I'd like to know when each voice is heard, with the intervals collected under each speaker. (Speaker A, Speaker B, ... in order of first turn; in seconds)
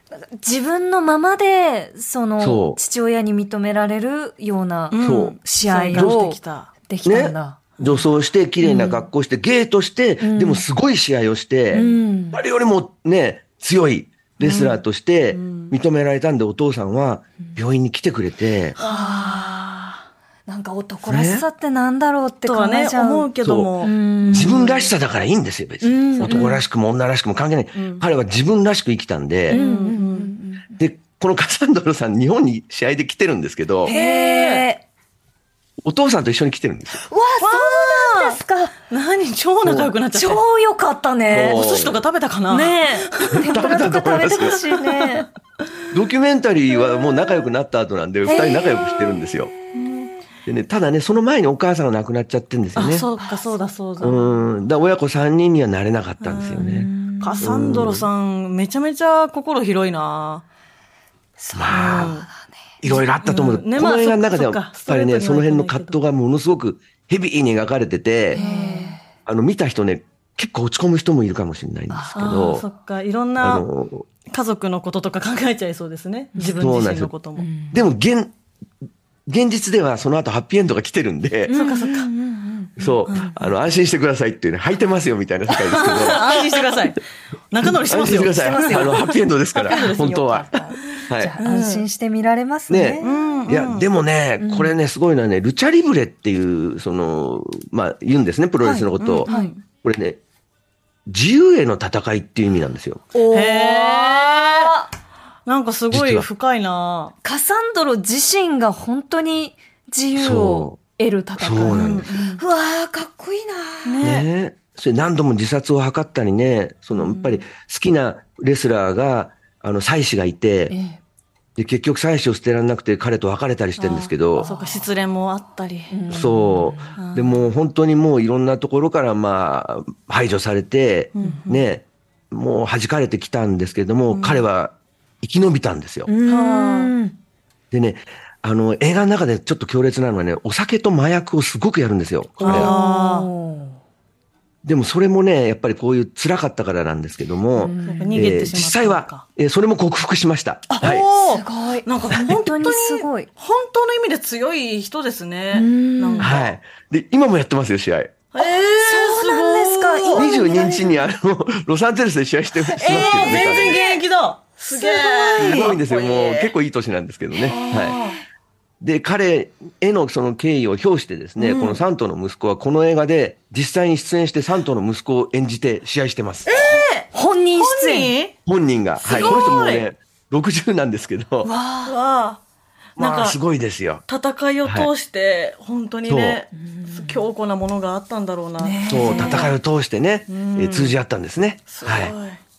Speaker A: 0.2-7.7, 8.6-9.1, 10.2-10.7, 11.7-12.4, 18.8-19.7, 20.5-24.8, 25.8-26.6, 29.5-30.8, 33.9-34.8, 37.0-38.7, 40.1-41.6, 42.5-45.3, 48.3-48.8, 53.2-53.6, 56.6-57.5, 61.4-62.6, 68.3-69.0, 71.9-72.3, 76.4-76.6, 77.4-77.8, 81.5-83.4, 88.3-89.2, 89.7-93.2, 94.4-94.8, 98.7-99.5, 103.1-104.9, 107.2-114.0, 120.7-121.0, 124.4-124.8, 125.9-127.0, 136.1-137.2, 142.4-143.8, 147.6-148.5, 150.7-153.3, 155.5-156.3, 158.4-160.9, 162.6-164.0, 164.7-165.8, 177.1-178.1, 179.1-179.4, 181.4-182.0, 186.6-187.2, 188.6-189.5
Speaker B: 2.4-2.8, 5.0-5.4, 7.0-18.8, 21.1-21.4, 23.4-23.7, 24.3-29.6, 30.8-33.9, 35.8-37.0, 39.6-39.9, 41.3-42.0, 43.4-44.6, 45.9-49.5, 50.5-53.1, 54.0-56.9, 57.4-58.1, 61.5-62.1, 62.8-68.4, 69.3-72.7, 73.4-74.1, 76.5-77.1, 77.7-78.3, 79.3-81.5, 82.8-86.6, 87.7-91.4, 92.7-99.3, 99.8-100.2, 101.1-103.0, 105.9-106.3, 110.2-110.8, 111.4-112.1, 114.0-120.7, 121.6-124.5, 126.1-136.1, 137.7-142.8, 144.6-151.1, 156.2-158.2, 160.1-163.8, 165.4-168.0, 168.8-176.5, 178.5-181.5, 183.0-184.1, 184.6-184.9, 186.1-186.4, 188.9-192.1
Speaker C: 4.9-6.7, 14.4-14.8, 15.3-15.7, 18.8-20.0, 22.5-24.9, 26.2-26.6, 27.8-28.1, 29.5-30.3, 33.9-34.7, 37.4-38.4, 38.9-40.4, 41.3-43.6, 44.2-45.2, 48.3-49.0, 49.7-50.1, 52.8-54.4, 56.2-60.5, 61.7-62.3, 62.9-66.0, 68.3-69.0, 72.2-73.7, 74.3-77.5, 81.5-82.1, 85.7-90.2, 91.0-91.8, 93.0-93.9, 98.7-99.6, 103.3-104.7, 105.5-107.1, 111.7-112.4, 113.8-114.3, 117.0-117.4, 123.8-126.0, 127.0-127.4, 131.2-131.7, 134.1-134.5, 136.3-136.9, 142.4-143.3, 147.8-149.2, 150.8-156.5, 158.3-160.9, 162.8-166.5, 167.5-168.2, 171.4-171.8, 176.5-178.3, 179.0-179.9, 181.8-182.4, 183.0-183.4, 184.1-189.6, 190.3-191.0, 191.7-192.4